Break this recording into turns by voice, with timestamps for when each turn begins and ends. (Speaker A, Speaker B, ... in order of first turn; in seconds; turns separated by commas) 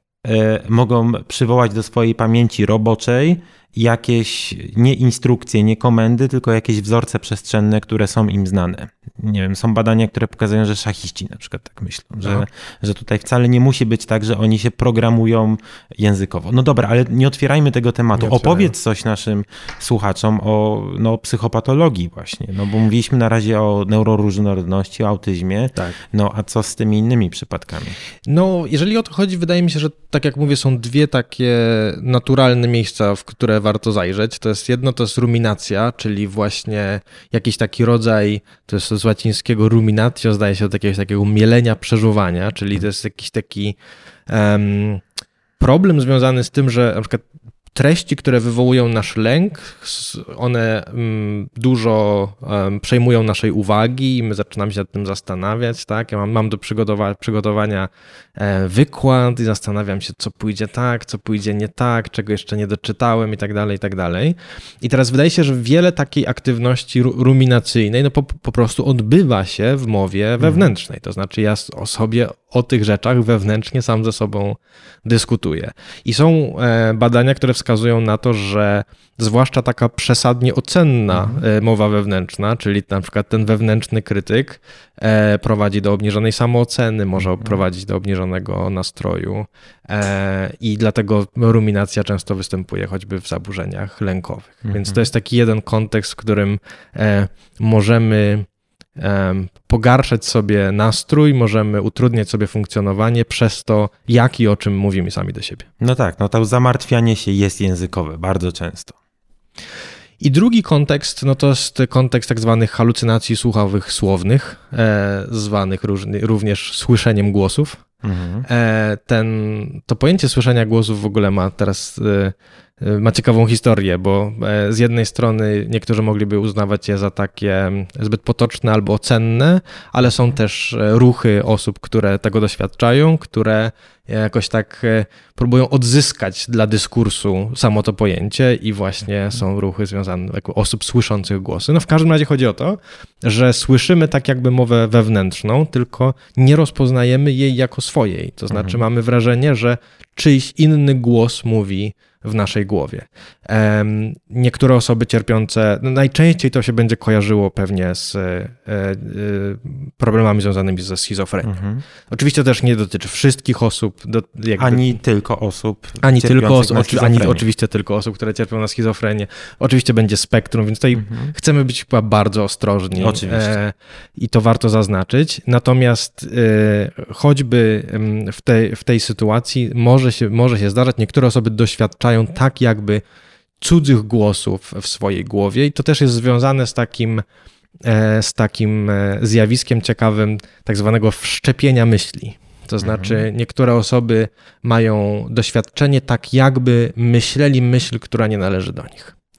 Speaker A: 0.2-28.0, Speaker B: 18.1-18.7, Speaker B: 28.2-43.8, Speaker B: 44.3-45.0, Speaker B: 45.6-105.7, Speaker A: 70.4-70.7, Speaker A: 81.1-81.4, Speaker A: 87.2-87.5, Speaker A: 94.6-95.0, Speaker A: 105.8-109.0, Speaker B: 110.2-117.8, Speaker A: 118.0-118.5, Speaker B: 118.5-165.0, Speaker A: 148.5-148.8, Speaker A: 161.4-161.8, Speaker A: 164.6-167.4, Speaker B: 166.0-183.0, Speaker A: 170.9-171.3, Speaker A: 172.9-173.6, Speaker B: 183.6-187.2, Speaker B: 187.8-199.2, Speaker A: 192.8-193.2